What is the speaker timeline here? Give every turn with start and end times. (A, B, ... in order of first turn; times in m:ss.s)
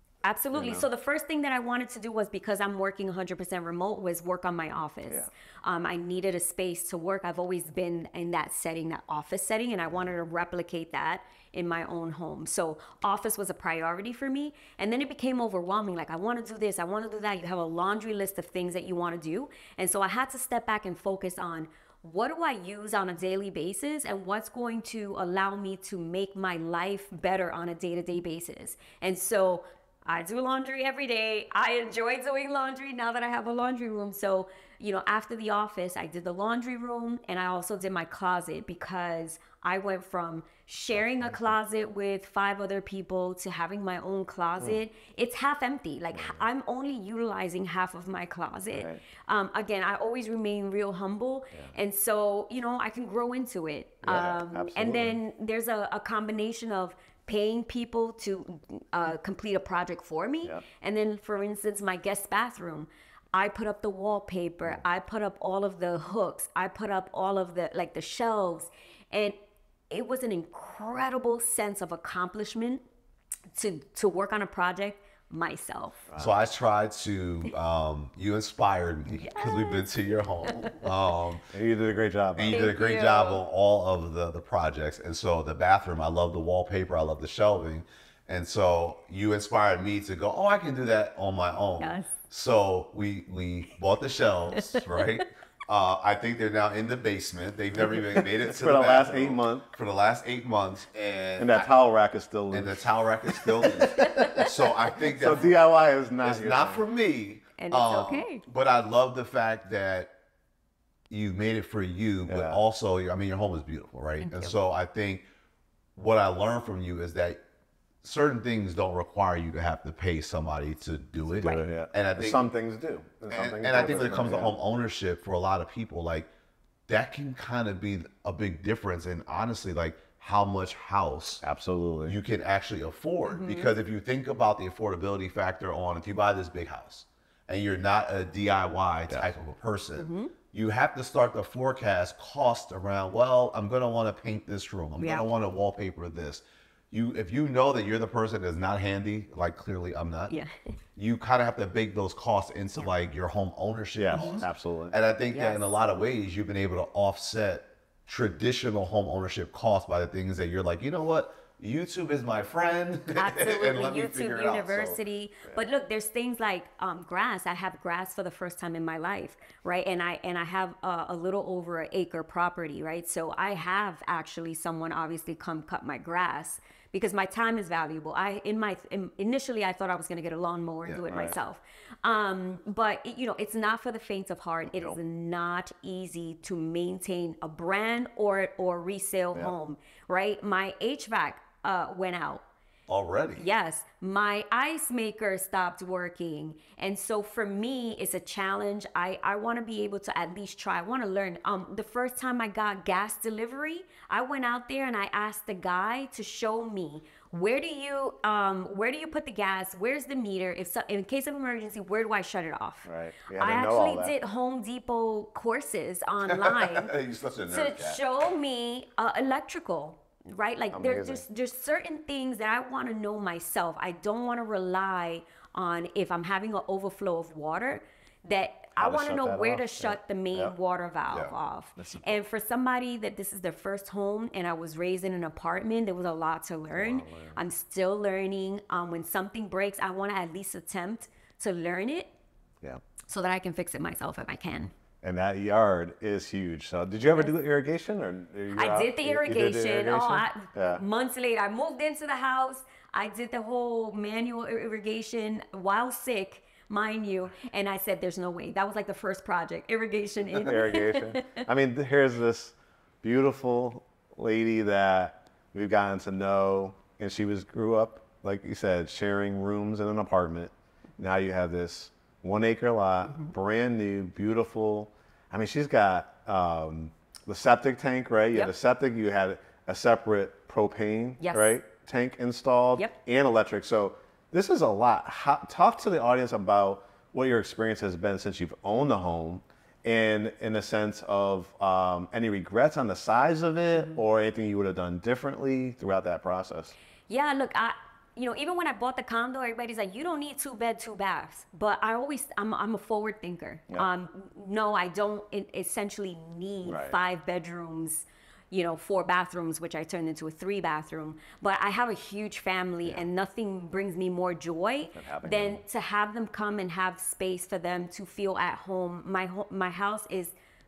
0:00.2-1:09.3 A
0:00.5-0:00.8 B
0:41.0-0:41.6 B
0:46.1-0:46.4 B
0:48.7-0:49.0 B
0:54.0-0:55.2 B
1:09.9-1:12.8 A
1:13.5-1:16.0 A
1:16.1-1:16.4 B
1:16.2-1:21.5 C
1:19.2-1:19.8 A
1:20.5-1:20.8 A
1:21.5-1:22.7 B
1:22.4-1:41.7 C
1:22.5-1:23.4 A
1:31.8-1:32.1 A
1:34.5-1:34.8 A
1:37.9-1:39.7 B
1:41.4-1:46.8 B
1:42.5-1:45.6 C
1:43.9-1:44.5 A
1:46.2-1:50.1 C
1:47.6-1:48.4 A
1:51.1-1:55.2 C
1:52.3-1:52.6 B
1:54.2-1:54.5 A
1:56.0-1:57.4 C
1:58.0-2:02.5 C
2:01.4-2:04.6 B
2:03.3-2:06.3 C
2:06.9-2:11.4 C
2:11.4-2:12.2 B
2:12.0-2:30.3 C
2:13.3-2:13.7 A
2:20.0-2:20.3 A
2:25.0-2:25.2 A
2:31.0-2:45.0 C
2:34.0-2:35.0 B
2:34.1-2:34.4 A
2:35.3-2:35.7 A
2:43.1-3:12.4 A
3:12.9-3:13.5 C
3:13.4-3:36.9 A
3:32.8-3:34.1 B
3:36.2-3:38.0 C
3:37.5-4:02.1 A
3:40.7-3:41.2 B
3:48.8-3:50.5 B
3:51.1-3:51.3 C
3:51.8-3:52.1 B
3:56.7-3:57.4 B
4:03.1-4:04.7 A
4:05.0-4:10.8 B
4:08.5-4:21.4 A
4:20.4-4:56.7 B
4:41.2-4:41.6 A
4:57.1-5:20.3 A
5:06.6-5:07.0 B
5:14.9-5:15.6 B